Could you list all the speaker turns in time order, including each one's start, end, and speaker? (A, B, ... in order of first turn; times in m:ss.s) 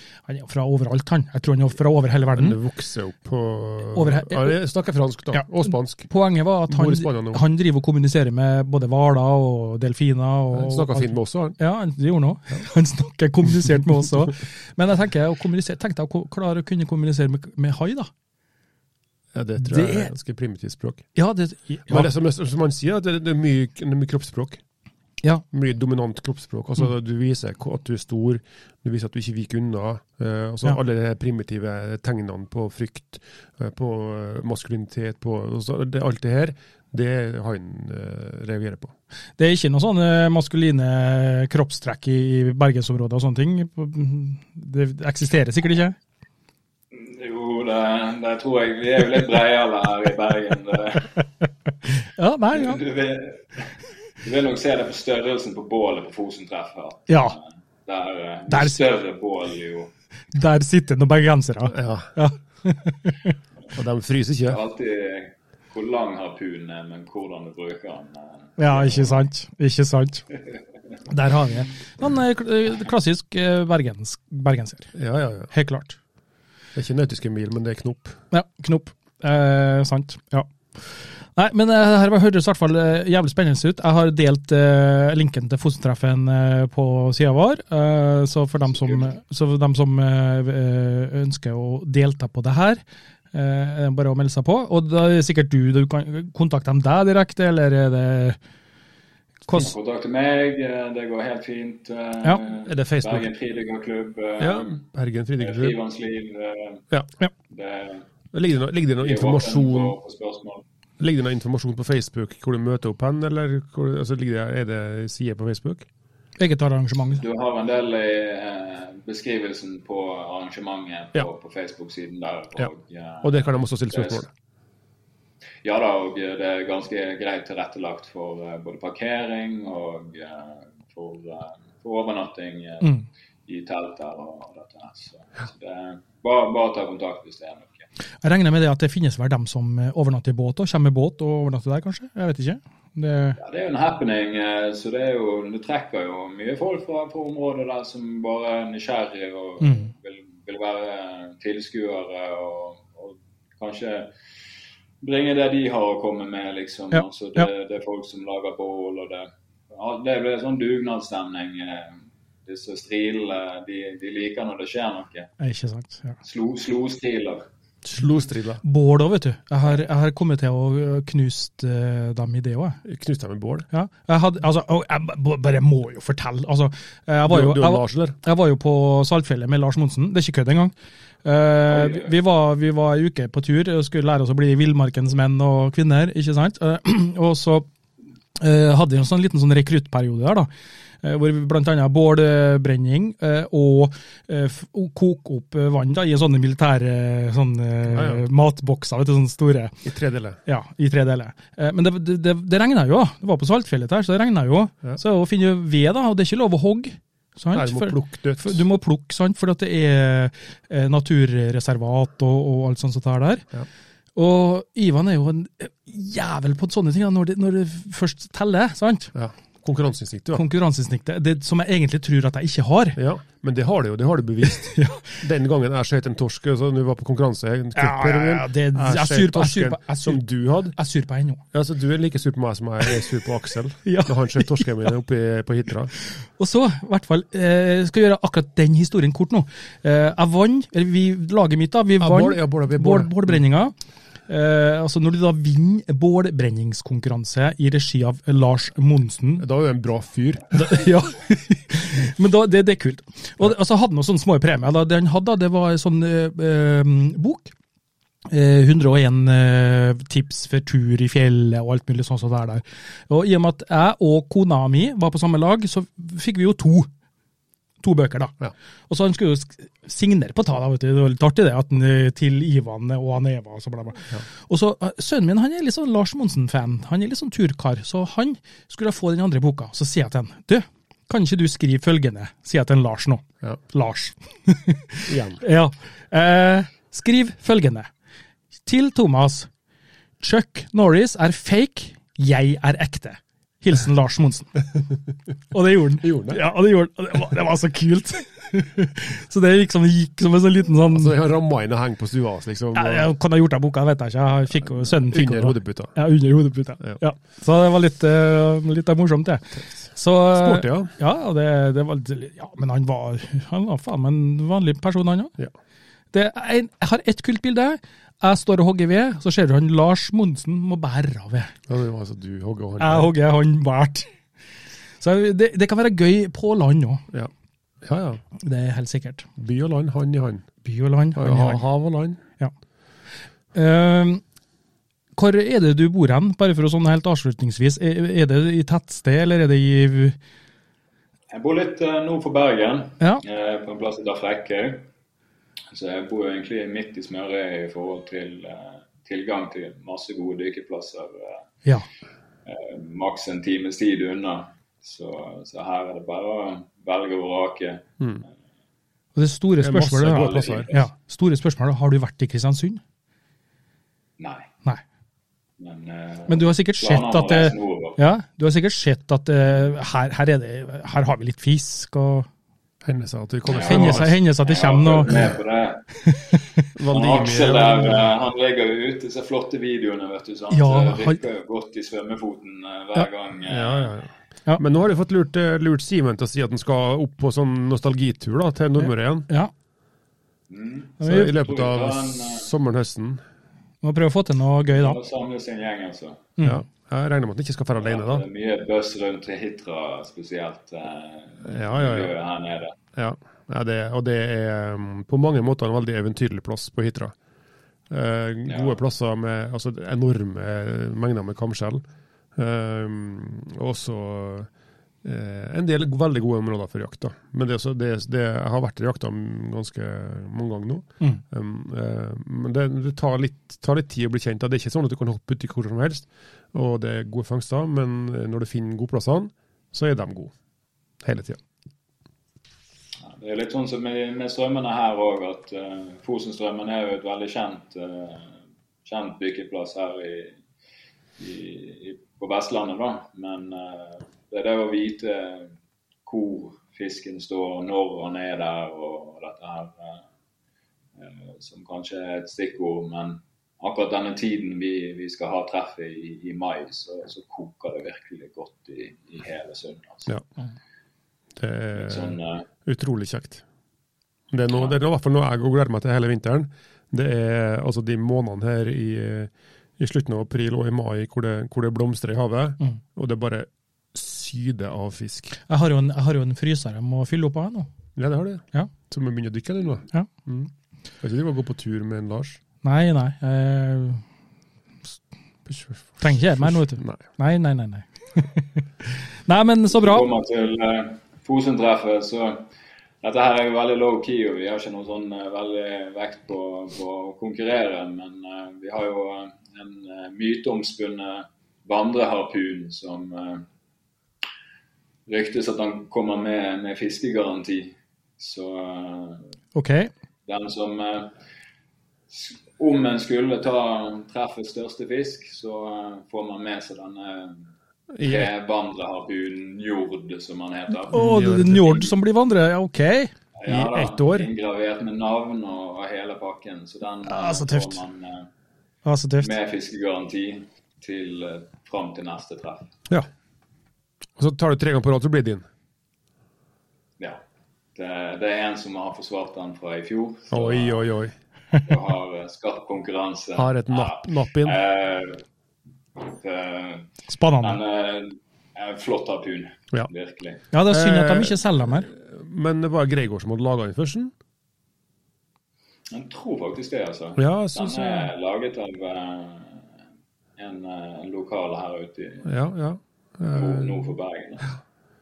0:00.3-0:02.6 A
0:02.3-0:06.1 B
0:03.9-0:04.6 A
0:05.3-0:18.1 A
0:06.7-0:07.4 B
0:10.5-0:11.6 B
0:19.3-0:21.1 B
0:19.6-0:20.1 A
0:21.1-0:22.1 A
0:21.9-0:24.6 B
0:25.5-0:38.9 B
0:39.4-0:46.0 A
0:46.9-0:51.1 C
0:52.1-0:52.8 A
0:52.6-0:53.7 C
0:54.2-0:59.9 C
0:57.1-0:57.3 A
0:58.5-0:58.8 A
1:00.3-1:03.3 A
1:01.7-1:02.1 B
1:03.7-1:04.6 B
1:04.5-1:09.2 C
1:08.6-1:10.2 A
1:11.1-1:14.9 A
1:14.9-1:15.5 B
1:15.5-1:16.0 A
1:16.7-1:18.2 B
1:18.3-1:32.8 A
1:33.3-1:38.4 A
1:39.5-1:39.7 A
1:39.5-1:44.8 C
1:42.6-1:43.3 B
1:44.4-1:45.8 B
1:45.4-1:46.8 C
1:47.5-1:48.0 C
1:48.3-1:50.0 B
1:49.0-1:50.6 C
1:51.0-1:55.8 B
1:56.4-1:57.2 A
1:57.2-2:04.2 C
2:03.2-2:04.3 B
2:05.6-2:12.9 C
2:13.5-2:17.9 C
2:18.2-2:23.4 A
2:23.4-2:34.1 C
2:29.6-2:29.9 A
2:35.0-2:45.3 C
2:36.9-2:37.5 A
2:45.4-2:46.2 A
2:46.2-2:47.4 C
2:47.8-2:48.6 B
2:48.6-2:52.8 A
2:52.8-2:53.6 B
2:53.7-3:00.7 A
2:57.3-2:58.2 B
3:01.2-3:07.7 A
3:01.7-3:02.1 C
3:08.4-3:10.5 A
3:11.0-3:19.8 A
3:17.9-3:18.2 B
3:19.8-3:20.4 B
3:20.4-3:33.4 A
3:27.5-3:28.6 B
3:34.2-3:39.1 A
3:39.1-3:40.4 B
3:40.3-3:43.0 A
3:43.0-3:50.8 B
3:44.5-3:45.2 A
3:47.7-3:51.4 A
3:51.5-3:55.9 B
3:53.8-3:54.7 A
3:56.4-4:03.7 A
4:02.0-4:03.4 B
4:04.3-4:09.4 A
4:09.4-4:10.6 B
4:10.5-4:17.5 A
4:18.3-4:26.9 A
4:27.8-4:28.4 A
4:28.9-4:47.9 A
4:45.1-4:45.4 B
4:48.6-4:49.5 A
4:50.2-4:54.6 A
4:55.5-5:01.2 A
4:56.0-4:56.4 B
5:00.9-5:03.1 B
5:02.7-5:15.3 A
5:04.7-5:06.0 B
5:10.3-5:10.9 B
5:16.1-5:21.5 A
5:21.7-5:23.1 B
5:22.8-5:24.1 A
5:25.0-5:27.0 A
5:27.8-5:28.2 B
5:28.4-5:29.3 A
5:29.4-5:30.4 B
5:30.6-5:31.6 A
5:31.1-5:32.2 B
5:33.5-5:34.2 A
5:35.2-5:40.2 A
5:41.3-5:44.8 C
5:45.7-5:51.4 C
5:52.4-5:57.8 C
5:59.1-6:02.8 A
5:59.6-6:00.7 B
6:00.1-6:00.9 C
6:04.2-6:04.5 C
6:05.6-6:08.0 C
6:06.3-6:12.3 A
6:12.8-6:14.2 B
6:13.4-6:15.8 C
6:13.6-6:15.3 A
6:16.0-6:16.6 A
6:16.7-6:18.1 B
6:16.9-6:24.0 C
6:20.5-6:21.2 A
6:23.4-6:29.3 B
6:28.8-6:29.5 A
6:30.5-6:32.5 C
6:31.0-6:31.3 A
6:31.0-6:33.2 B
6:33.8-6:35.0 A
6:34.7-6:36.3 C
6:36.4-6:38.2 B
6:37.8-6:42.7 C
6:41.4-6:42.1 B
6:42.9-6:47.1 B
6:47.9-6:51.8 B
6:48.5-6:48.8 C
6:52.4-6:54.5 B
6:55.0-7:10.3 B
7:11.0-7:11.4 B
7:13.0-7:20.4 C
7:21.2-7:25.5 C
7:26.0-7:30.0 C
7:31.0-7:40.1 C
7:41.4-7:43.4 B
7:41.7-7:42.4 C
7:44.3-7:55.4 B
7:55.5-7:57.7 A
7:58.0-8:02.4 B
8:02.6-8:04.0 A
8:05.5-8:07.0 B
8:06.0-8:10.1 A
8:09.7-8:12.5 C
8:13.0-8:23.4 C
8:25.1-8:29.3 C
8:29.5-8:29.9 A
8:30.3-8:31.1 C
8:32.1-8:37.5 C
8:37.9-8:38.3 B
8:38.0-8:41.0 C
8:40.9-8:43.1 A
8:40.9-8:41.9 B
8:43.4-8:48.3 C
8:43.4-8:44.3 B
8:47.0-8:47.8 A
8:48.8-8:49.3 A
8:49.2-8:52.7 C
8:54.2-8:55.4 B
8:57.7-9:00.8 C
9:00.3-9:01.1 B
9:01.6-9:05.2 C
9:03.4-9:04.6 B
9:06.0-9:06.9 C
9:07.1-9:07.6 A
9:07.4-9:10.4 C
9:10.5-9:11.9 A
9:10.7-9:14.1 B
9:15.9-9:19.7 C
9:17.2-9:18.1 B
9:20.4-9:22.3 C
9:22.2-9:23.8 B
9:23.3-9:24.6 C